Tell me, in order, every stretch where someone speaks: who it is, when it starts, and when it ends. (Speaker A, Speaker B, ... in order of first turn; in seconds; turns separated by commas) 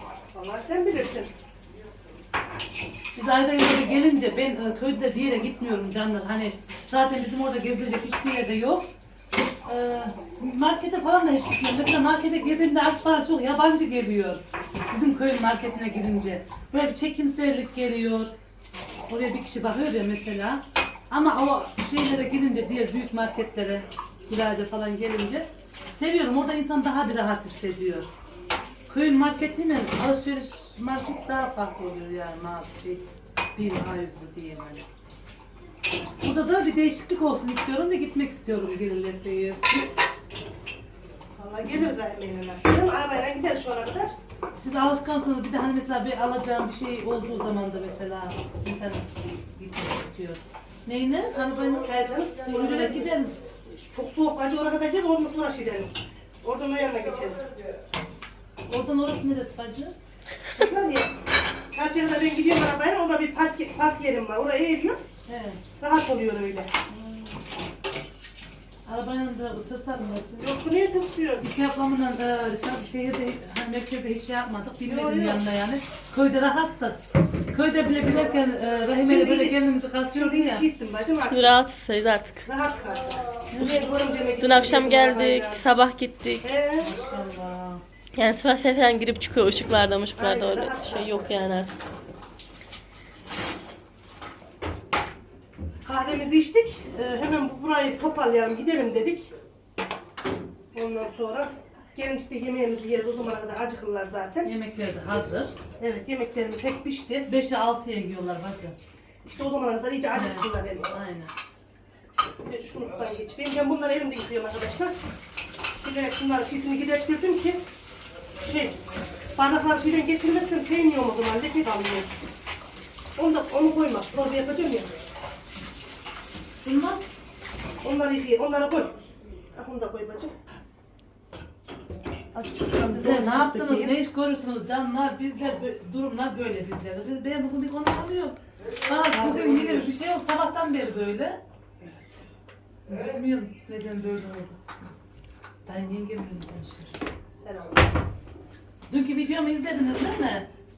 Speaker A: 0.3-1.3, Speaker B: 3.1-8.9, Speaker B: 9.6-18.3, Speaker B: 19.1-28.1, Speaker B: 28.9-33.0, Speaker B: 33.5-34.8, Speaker B: 36.2-39.8, Speaker A: 41.4-44.1, Speaker B: 44.6-53.3, Speaker A: 51.8-53.1, Speaker A: 53.7-57.6, Speaker B: 58.6-59.9, Speaker A: 60.5-61.1, Speaker A: 61.7-65.0, Speaker B: 65.3-65.6, Speaker A: 65.8-66.7, Speaker B: 66.9-67.3, Speaker B: 68.8-70.5, Speaker A: 70.4-71.5, Speaker B: 71.4-80.7, Speaker A: 74.8-75.4, Speaker A: 78.0-78.4, Speaker A: 78.9-81.6, Speaker C: 81.3-82.4, Speaker A: 82.5-85.7, Speaker B: 83.5-83.8, Speaker C: 84.4-86.4, Speaker A: 86.4-87.0, Speaker B: 86.8-87.8, Speaker C: 88.1-91.7, Speaker A: 90.1-91.4, Speaker A: 95.8-99.3, Speaker A: 100.7-104.5, Speaker B: 104.4-105.5, Speaker A: 105.8-107.3, Speaker B: 107.2-108.8, Speaker A: 109.3-110.9, Speaker B: 110.1-111.3, Speaker A: 112.4-114.9, Speaker A: 115.8-117.6, Speaker A: 118.4-118.8, Speaker A: 119.3-122.2, Speaker A: 123.2-124.9, Speaker B: 126.6-127.0, Speaker A: 127.8-128.9, Speaker A: 129.5-130.3, Speaker A: 132.3-133.9, Speaker B: 132.8-141.4, Speaker A: 139.1-139.9, Speaker A: 141.8-142.2, Speaker B: 142.9-144.6, Speaker B: 145.7-146.9, Speaker A: 147.4-147.8, Speaker B: 148.9-150.5